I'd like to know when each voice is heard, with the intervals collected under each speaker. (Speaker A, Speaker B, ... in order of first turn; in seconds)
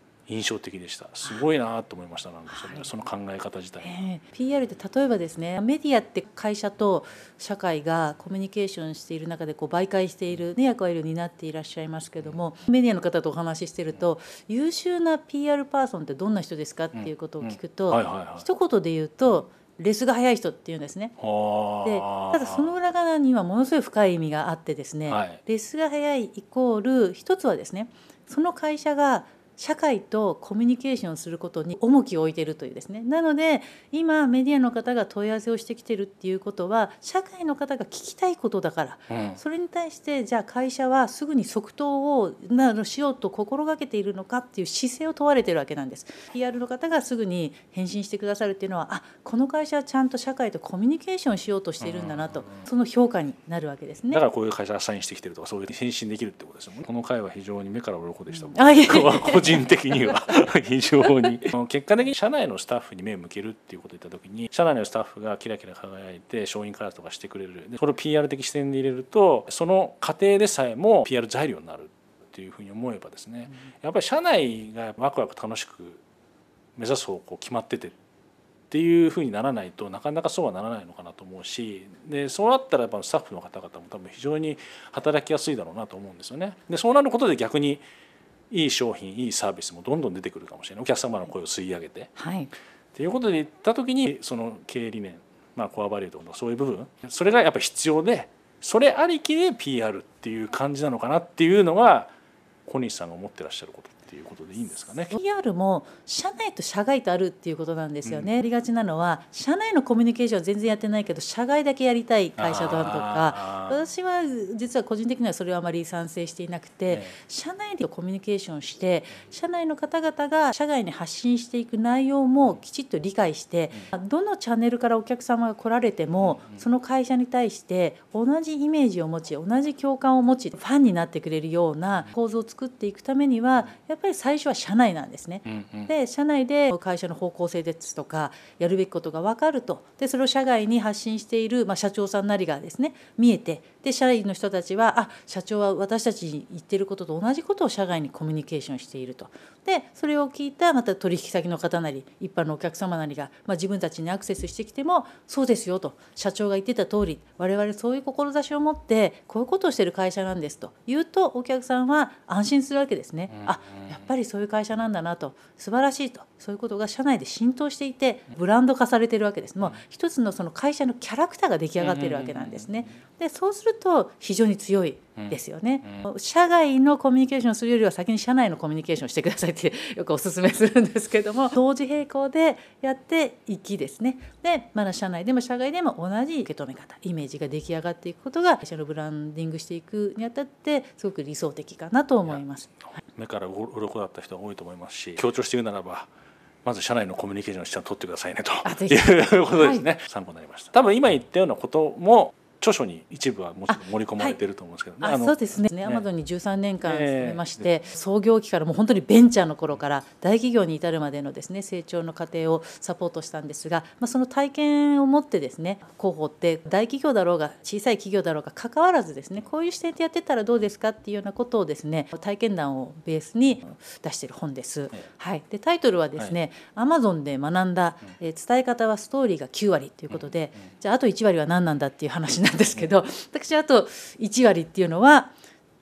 Speaker A: 0.3-3.9, 16.9-18.4, 21.2-22.7, 25.1-25.4, 39.1-39.4, 51.8-52.6, 54.1-76.0, 76.8-77.9, 78.7-87.8, 88.5-92.1, 92.9-102.1, 102.7-105.1, 112.4-113.8, 126.2-126.6, 135.4-135.9, 163.3-163.9, 171.8-172.9, 175.2-176.0, 193.0-196.1, 196.6-206.1, 206.8-207.6
Speaker B: 2.5-2.9, 3.8-21.1, 21.8-54.2, 58.5-60.1, 92.2-92.5, 105.1-192.7, 198.6-199.8, 203.7-204.4, 205.0-235.3